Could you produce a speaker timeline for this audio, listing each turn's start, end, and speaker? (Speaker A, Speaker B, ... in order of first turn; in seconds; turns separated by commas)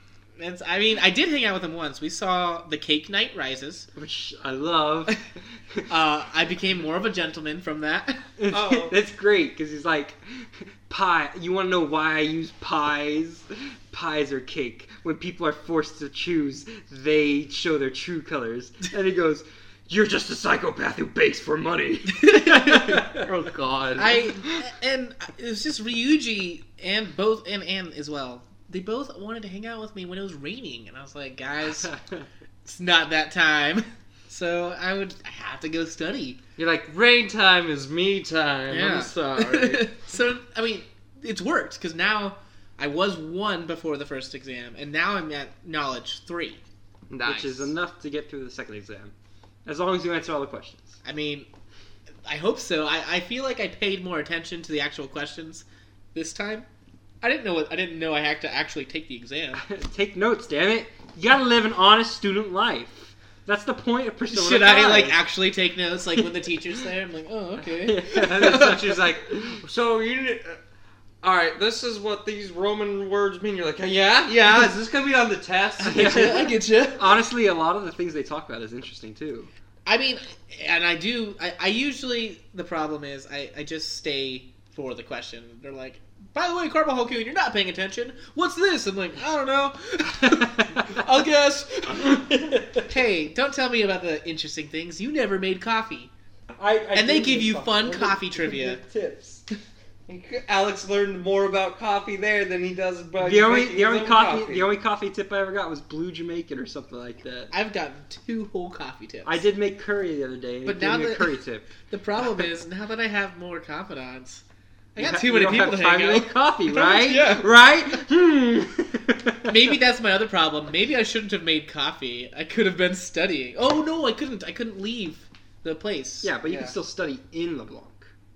Speaker A: 0.4-3.9, Speaker B: 4.0-5.2, Speaker A: 5.9-8.2, Speaker B: 8.4-23.2, Speaker C: 8.5-8.9, Speaker A: 22.1-23.2, Speaker C: 23.1-24.6, Speaker A: 24.0-31.9, Speaker B: 31.9-32.2, Speaker A: 32.6-36.4, Speaker C: 36.6-39.9, Speaker A: 38.7-46.6, Speaker C: 47.1-47.7, Speaker B: 47.2-49.1, Speaker B: 49.6-51.0, Speaker A: 51.0-51.5, Speaker A: 52.3-56.7, Speaker A: 57.2-59.6, Speaker B: 59.6-65.2, Speaker A: 64.3-68.8, Speaker B: 67.8-69.6, Speaker C: 68.2-70.6, Speaker C: 71.2-76.5, Speaker A: 75.8-77.1, Speaker B: 75.8-79.5, Speaker A: 79.9-96.1, Speaker B: 92.0-92.8, Speaker B: 96.6-99.4, Speaker A: 97.0-98.8, Speaker C: 100.1-104.7, Speaker B: 103.2-107.5, Speaker A: 107.5-109.4, Speaker B: 109.2-111.7, Speaker A: 110.7-114.4, Speaker A: 115.0-117.5, Speaker B: 115.0-119.8, Speaker A: 119.5-126.3, Speaker B: 126.2-128.1, Speaker C: 126.5-126.8